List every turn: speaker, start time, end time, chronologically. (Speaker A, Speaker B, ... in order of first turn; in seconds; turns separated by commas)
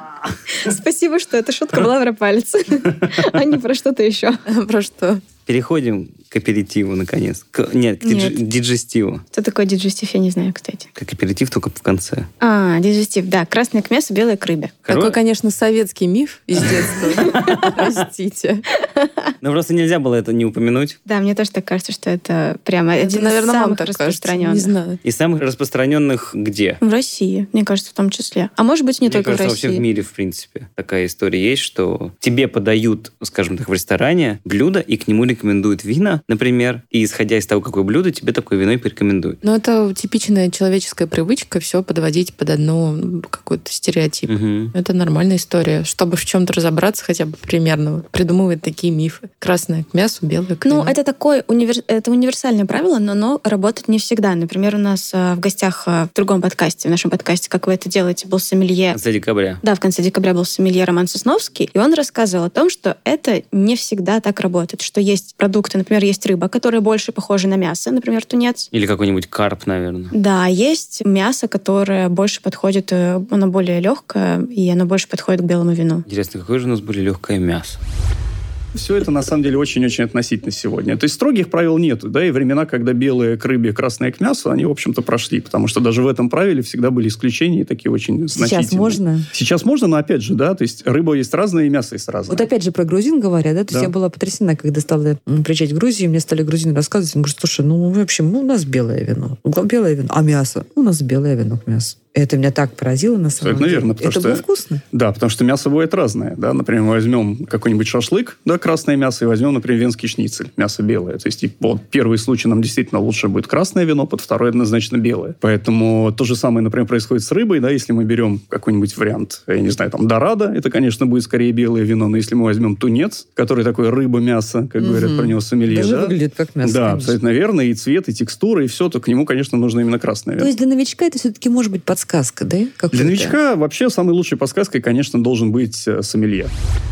Speaker A: 0.6-4.4, Speaker B: 4.5-5.2, Speaker C: 5.5-9.2, Speaker A: 8.0-8.3, Speaker A: 9.3-10.9, Speaker C: 11.0-12.3, Speaker A: 12.4-14.8, Speaker C: 14.8-15.2, Speaker B: 14.9-18.6, Speaker C: 17.2-17.8, Speaker A: 18.8-19.3, Speaker C: 19.4-21.0, Speaker A: 21.1-24.7, Speaker B: 23.0-25.0, Speaker C: 25.0-26.8, Speaker A: 26.8-29.8, Speaker C: 29.0-39.4, Speaker B: 39.4-50.9, Speaker C: 44.3-44.7, Speaker A: 50.6-59.0, Speaker C: 58.9-59.6, Speaker A: 59.6-68.7, Speaker C: 68.7-70.1, Speaker A: 70.1-76.0, Speaker C: 76.1-77.8, Speaker D: 78.7-92.5, Speaker E: 88.3-89.3, Speaker E: 92.3-104.8, Speaker D: 103.4-130.5, Speaker E: 124.8-127.2, Speaker E: 130.4-133.3, Speaker D: 132.9-136.5